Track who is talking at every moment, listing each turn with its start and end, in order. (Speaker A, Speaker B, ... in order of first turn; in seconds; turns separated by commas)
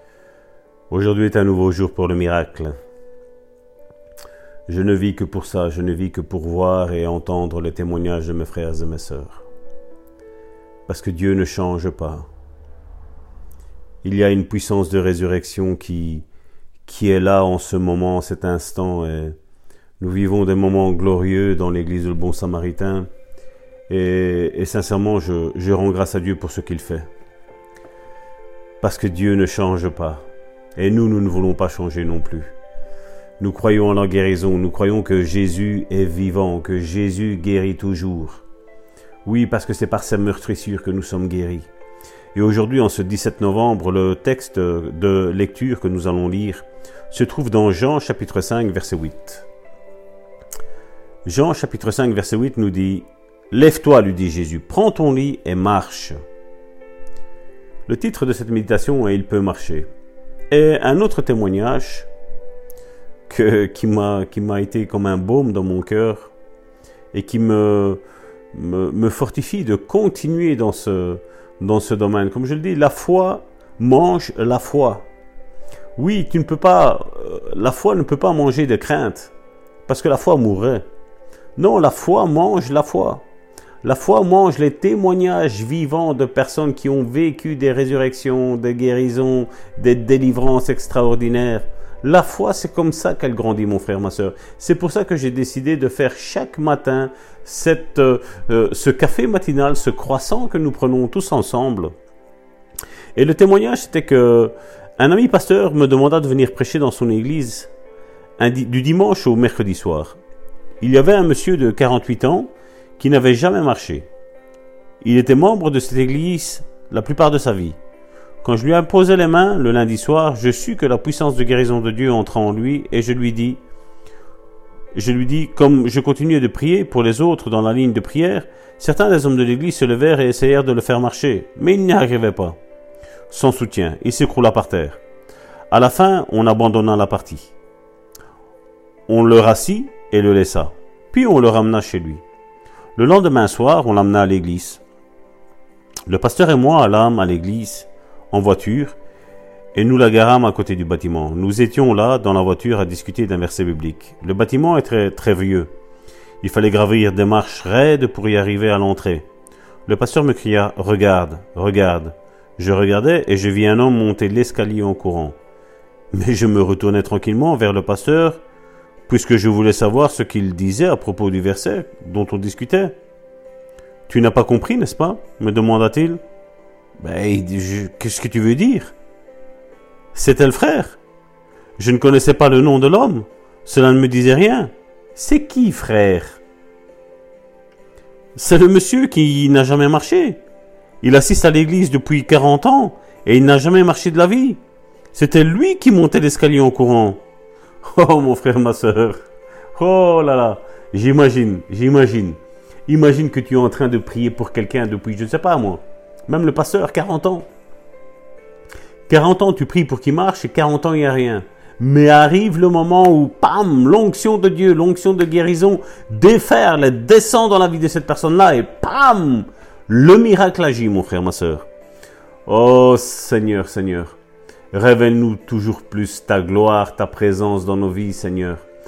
Speaker A: 0.9-2.8, Speaker A: 4.7-9.5, Speaker A: 10.9-12.3, Speaker A: 14.0-16.2, Speaker A: 16.9-19.4, Speaker A: 20.0-23.1, Speaker A: 23.9-27.1, Speaker A: 28.8-30.2, Speaker A: 30.8-32.5, Speaker A: 33.4-38.4, Speaker A: 39.2-41.7, Speaker A: 42.4-49.5, Speaker A: 51.3-56.1, Speaker A: 57.9-59.9, Speaker A: 60.5-62.1, Speaker A: 63.3-66.3, Speaker A: 67.1-68.0, Speaker A: 68.5-75.0, Speaker A: 76.0-79.3, Speaker A: 79.9-80.8, Speaker A: 81.6-83.2, Speaker A: 83.8-101.9, Speaker A: 103.2-107.7, Speaker A: 108.4-110.2, Speaker A: 110.8-114.1, Speaker A: 115.0-117.8, Speaker A: 118.4-123.6, Speaker A: 124.9-132.6, Speaker A: 133.3-135.0, Speaker A: 135.7-137.5, Speaker A: 139.1-142.2, Speaker A: 143.0-144.8, Speaker A: 146.1-149.0, Speaker A: 149.7-155.7, Speaker A: 156.4-159.2, Speaker A: 159.9-165.4, Speaker A: 166.1-168.4, Speaker A: 169.1-172.9, Speaker A: 174.1-176.2, Speaker A: 177.0-178.9, Speaker A: 180.1-181.0, Speaker A: 181.8-186.4, Speaker A: 188.4-190.4, Speaker A: 191.0-194.6, Speaker A: 195.1-197.2, Speaker A: 197.8-202.4, Speaker A: 202.9-207.5, Speaker A: 209.1-221.7, Speaker A: 222.5-224.2, Speaker A: 224.7-228.6